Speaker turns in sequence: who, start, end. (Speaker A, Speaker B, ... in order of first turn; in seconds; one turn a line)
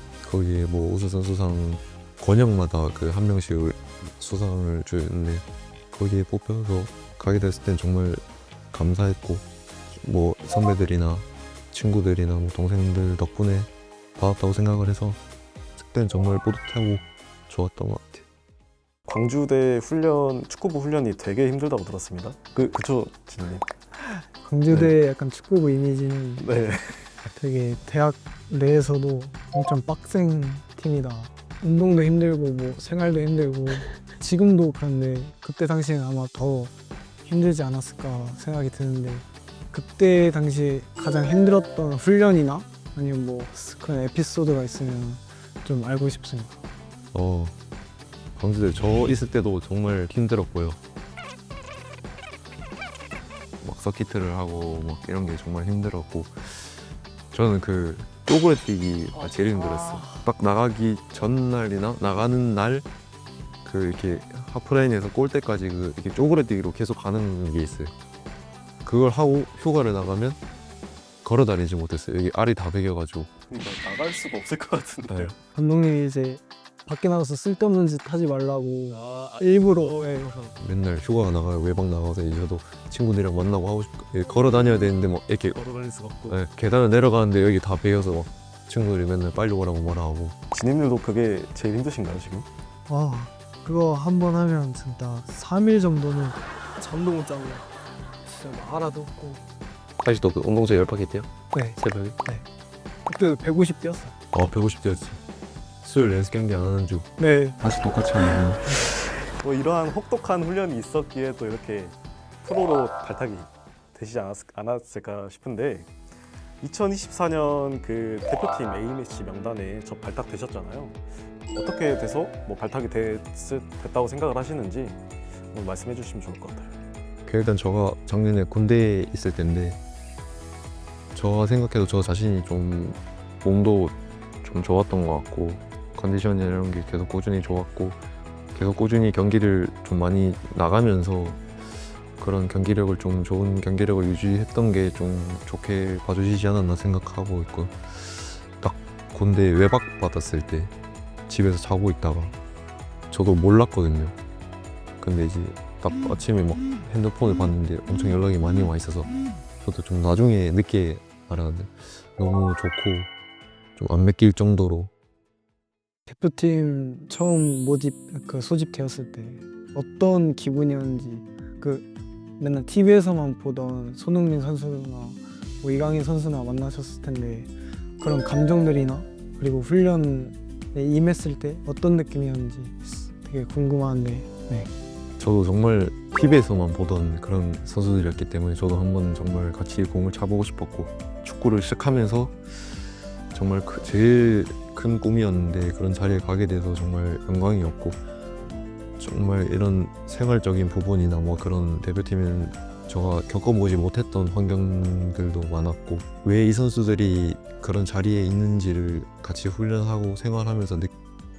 Speaker A: 0.2-15.2
Speaker A: 15.8-18.2
Speaker B: 19.1-23.6
Speaker C: 24.4-26.5
Speaker B: 26.4-27.1
Speaker C: 27.3-46.6
Speaker A: 47.1-47.5
Speaker A: 48.4-50.8
Speaker A: 53.6-62.9
Speaker A: 63.6-67.9
Speaker A: 68.8-70.4
Speaker A: 71.2-73.3
Speaker B: 73.5-75.4
Speaker A: 75.1-75.3
Speaker C: 75.5-80.4
Speaker B: 78.9-80.5
Speaker A: 80.6-85.6
Speaker B: 85.5-86.4
Speaker A: 86.3-90.3
Speaker B: 90.5-92.5
Speaker C: 92.9-97.7
Speaker C: 98.2-99.4
Speaker A: 100.0-102.2
Speaker C: 101.5-102.4
Speaker C: 103.0-104.2
Speaker A: 104.3-105.2
Speaker A: 105.8-107.1
Speaker C: 107.2-107.6
Speaker A: 107.6-109.0
Speaker B: 109.3-115.9
Speaker B: 116.6-121.0
Speaker B: 121.5-125.0
Speaker B: 125.5-126.7
Speaker A: 127.2-129.8
Speaker A: 131.1-138.0
Speaker A: 138.5-141.5
Speaker A: 142.2-150.7
Speaker A: 151.3-152.3
Speaker A: 153.1-154.2
Speaker A: 155.0-159.1
Speaker A: 159.6-163.1
Speaker A: 163.8-164.9
Speaker C: 166.1-171.9
Speaker C: 172.4-184.7
Speaker A: 185.2-192.8
Speaker A: 193.3-198.0
Speaker A: 199.0-210.9